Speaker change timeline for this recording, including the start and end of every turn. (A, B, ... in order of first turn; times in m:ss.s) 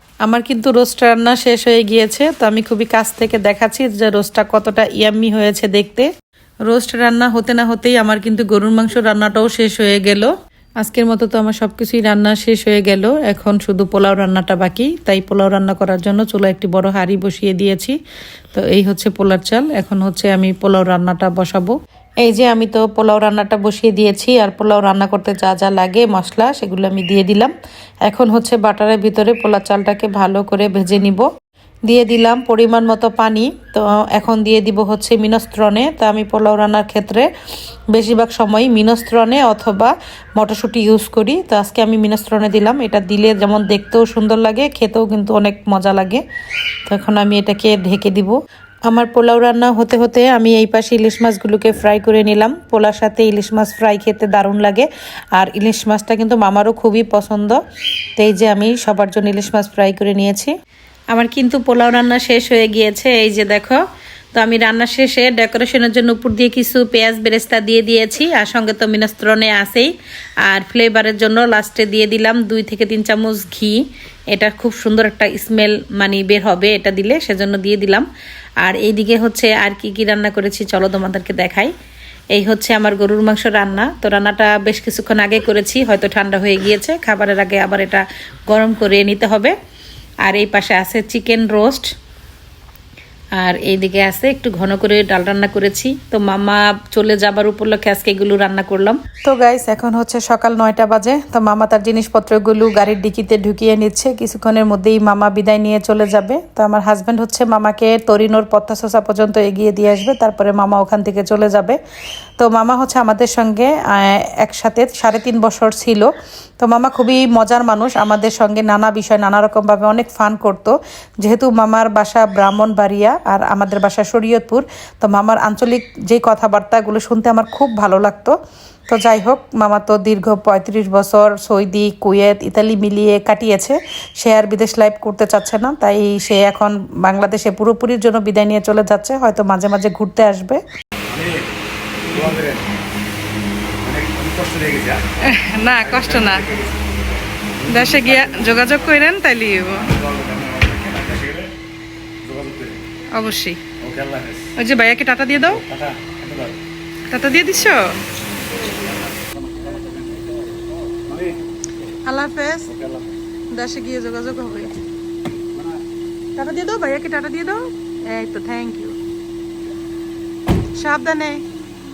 0:00.2-0:06.1 A
0:06.7-0:18.0 A
0:18.5-0:27.5 A
0:28.0-0:31.3 A
0:31.9-0:37.3 A
0:37.9-0:46.2 A
0:46.9-0:57.6 A
0:58.2-1:00.5 A
1:01.1-1:03.8 A
1:04.4-1:09.9 A
1:10.4-1:18.1 A
1:18.6-1:21.7 A
1:22.3-1:29.6 A
1:30.2-1:31.9 A
1:33.4-1:51.8 A
1:52.4-2:08.4 A
2:08.9-2:20.6 A
2:21.1-2:21.4 B
2:22.1-2:22.6 B
2:23.8-2:25.1 B
2:25.2-2:26.5 A
2:25.8-2:28.7 B
2:27.7-2:30.0 A
2:29.9-2:31.5 B
2:32.2-2:32.9 B
2:33.1-2:33.7 A
2:33.8-2:34.5 B
2:34.6-2:35.6 A
2:35.5-2:36.6 B
2:37.1-2:38.0 A
2:39.0-2:40.2 B
2:41.1-2:41.4 B
2:42.1-2:42.7 A
2:42.7-2:43.1 B
2:43.5-2:44.8 A
2:46.4-2:49.0 A
2:50.8-2:51.4 A